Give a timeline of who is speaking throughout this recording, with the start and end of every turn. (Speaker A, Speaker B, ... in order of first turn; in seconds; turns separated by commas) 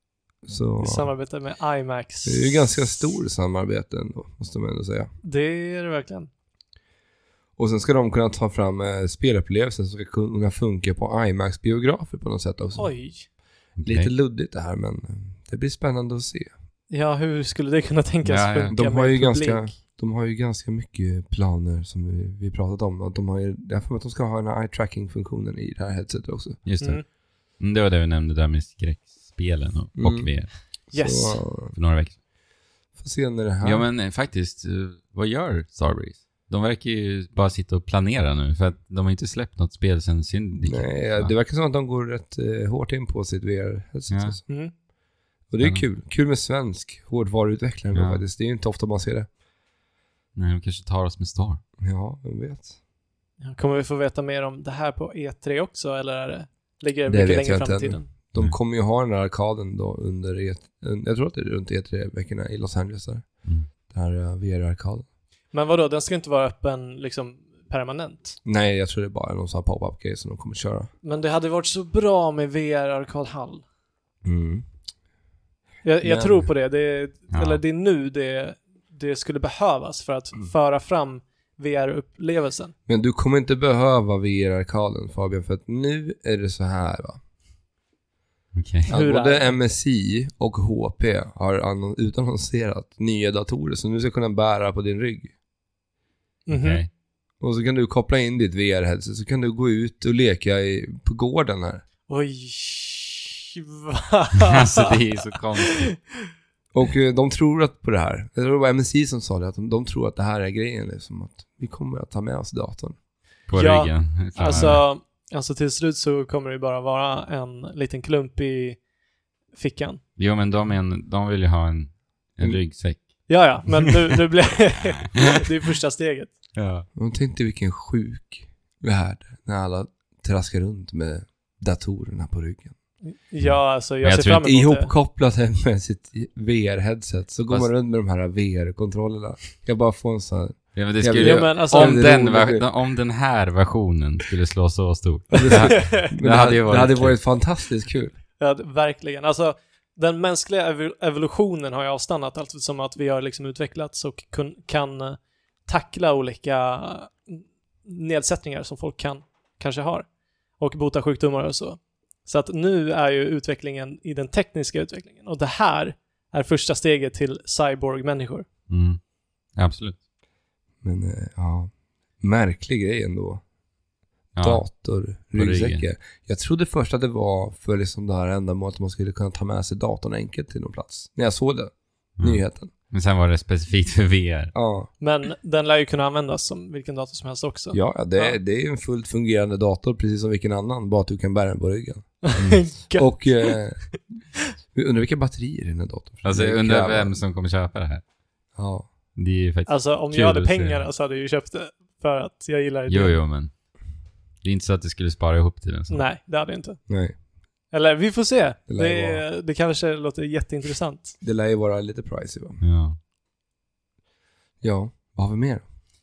Speaker A: 0.4-1.1, Speaker B: 0.8-2.7, Speaker A: 2.3-5.1, Speaker B: 5.2-6.3, Speaker A: 7.6-12.9, Speaker B: 12.8-13.3, Speaker C: 13.8-14.1, Speaker A: 13.9-16.5, Speaker B: 16.9-19.7, Speaker C: 18.2-18.7, Speaker A: 18.7-26.6, Speaker C: 26.6-30.6, Speaker A: 30.0-31.8, Speaker B: 30.9-31.4, Speaker C: 31.7-32.2, Speaker A: 33.0-33.9, Speaker C: 33.6-41.3, Speaker A: 40.6-44.4, Speaker C: 44.1-44.4, Speaker B: 44.5-44.7, Speaker A: 45.5-49.3, Speaker C: 47.9-48.2, Speaker C: 50.4-51.6, Speaker A: 51.8-52.8, Speaker B: 53.4-58.1, Speaker A: 57.1-65.1, Speaker B: 65.5-68.4, Speaker A: 68.5-70.9, Speaker B: 71.0-73.7, Speaker A: 74.2-74.7, Speaker B: 75.8-82.8, Speaker A: 76.0-76.5, Speaker C: 77.3-77.6, Speaker A: 82.9-87.2, Speaker C: 88.5-88.9, Speaker A: 88.9-95.3, Speaker B: 88.9-89.6, Speaker B: 96.5-96.8, Speaker C: 96.5-96.9, Speaker A: 97.4-101.8, Speaker B: 102.1-105.0, Speaker C: 104.4-106.0, Speaker B: 105.7-106.3, Speaker A: 106.7-113.0, Speaker C: 113.5-114.8, Speaker B: 113.5-118.8, Speaker A: 114.5-114.8, Speaker B: 119.5-120.0, Speaker C: 120.2-123.8, Speaker B: 123.3-126.3, Speaker C: 124.5-125.2, Speaker C: 126.5-126.9, Speaker A: 127.0-132.8, Speaker B: 133.0-134.9, Speaker C: 133.4-134.4, Speaker A: 134.3-142.7, Speaker C: 140.8-147.2, Speaker B: 141.2-142.1, Speaker A: 145.3-148.2, Speaker B: 145.7-146.2, Speaker B: 148.4-160.1, Speaker B: 160.6-168.5, Speaker C: 168.7-169.0, Speaker C: 169.6-170.0, Speaker A: 170.8-173.4, Speaker C: 174.4-174.6, Speaker A: 174.4-182.7, Speaker C: 175.2-175.8, Speaker C: 182.2-184.5, Speaker A: 184.5-184.9, Speaker B: 185.0-188.4, Speaker A: 187.7-194.1, Speaker B: 192.2-193.6, Speaker A: 194.7-197.2, Speaker C: 196.2-198.0, Speaker A: 198.6-198.9, Speaker C: 199.2-200.8, Speaker B: 199.7-203.2, Speaker C: 202.9-203.5, Speaker C: 204.4-206.1, Speaker B: 205.9-206.8, Speaker A: 206.9-207.2, Speaker B: 207.7-211.2, Speaker A: 208.7-209.2, Speaker A: 211.2-212.6, Speaker C: 212.6-213.0, Speaker A: 214.6-215.6